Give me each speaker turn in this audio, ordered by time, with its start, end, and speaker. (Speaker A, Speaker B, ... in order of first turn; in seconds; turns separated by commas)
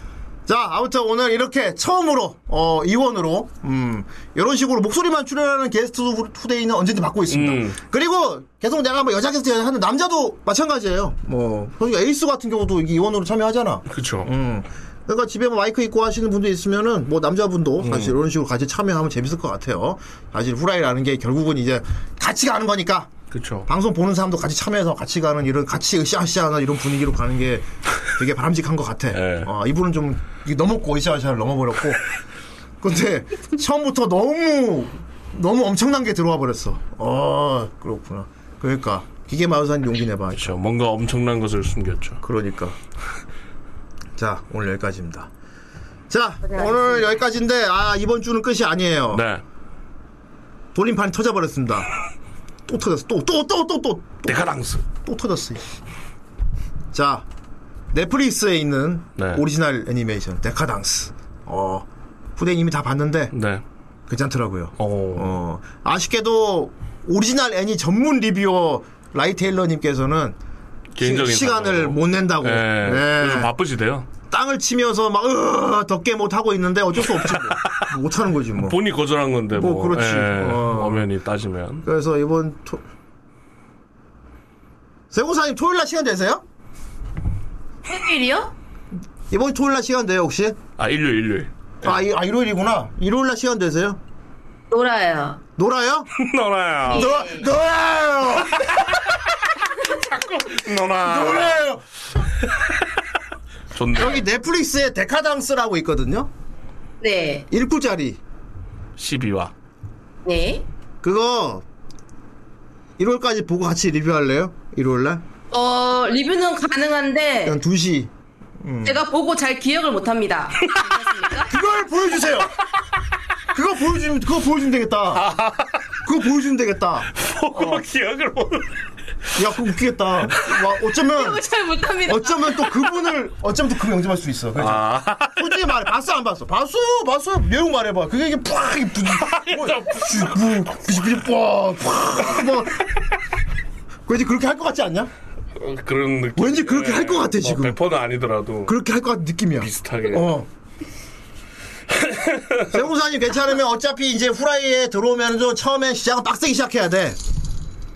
Speaker A: 0.5-23.1, Speaker B: 7.3-7.8, Speaker B: 13.9-14.3, Speaker B: 17.8-18.1, Speaker B: 23.3-23.6, Speaker A: 23.6-32.0, Speaker B: 29.1-29.5, Speaker A: 32.8-40.5, Speaker B: 40.3-42.2, Speaker A: 42.2-42.8, Speaker A: 44.1-45.3, Speaker A: 46.1-49.2, Speaker C: 46.4-47.1, Speaker B: 49.1-49.4, Speaker A: 50.7-51.9, Speaker A: 52.6-55.6, Speaker B: 54.2-54.8, Speaker A: 56.9-57.2, Speaker A: 57.9-63.3, Speaker B: 59.2-59.4, Speaker B: 63.3-63.6, Speaker A: 64.1-70.4, Speaker B: 64.8-65.3, Speaker B: 70.9-74.1, Speaker A: 71.0-73.5, Speaker A: 74.3-78.8, Speaker B: 77.1-77.9, Speaker B: 78.6-81.8, Speaker A: 79.5-81.1, Speaker A: 81.8-82.8, Speaker A: 85.1-86.4, Speaker C: 87.9-88.5, Speaker A: 89.3-90.6, Speaker B: 90.8-91.9, Speaker A: 91.8-94.0, Speaker C: 94.7-95.4, Speaker A: 95.6-96.1, Speaker B: 96.2-97.1, Speaker A: 96.8-99.1, Speaker C: 96.9-97.5, Speaker B: 99.7-101.7, Speaker A: 101.0-101.8, Speaker B: 103.7-104.2, Speaker A: 103.9-106.3, Speaker C: 107.0-107.5, Speaker A: 107.5-108.2, Speaker B: 109.0-109.5, Speaker C: 110.2-110.6, Speaker A: 111.0-111.6, Speaker A: 113.0-115.2, Speaker C: 115.5-117.6, Speaker A: 117.4-119.0, Speaker C: 118.8-121.5, Speaker A: 121.5-122.5, Speaker A: 123.5-125.2, Speaker B: 125.1-125.8, Speaker A: 126.0-127.8, Speaker B: 127.2-128.7, Speaker A: 129.4-131.4, Speaker C: 131.1-132.5, Speaker A: 132.1-143.0, Speaker B: 134.6-135.5, Speaker B: 139.2-140.8, Speaker A: 144.1-145.1, Speaker B: 145.6-148.8, Speaker A: 146.3-147.8, Speaker A: 148.7-150.5, Speaker B: 149.6-150.3, Speaker B: 151.9-152.8, Speaker A: 152.7-157.2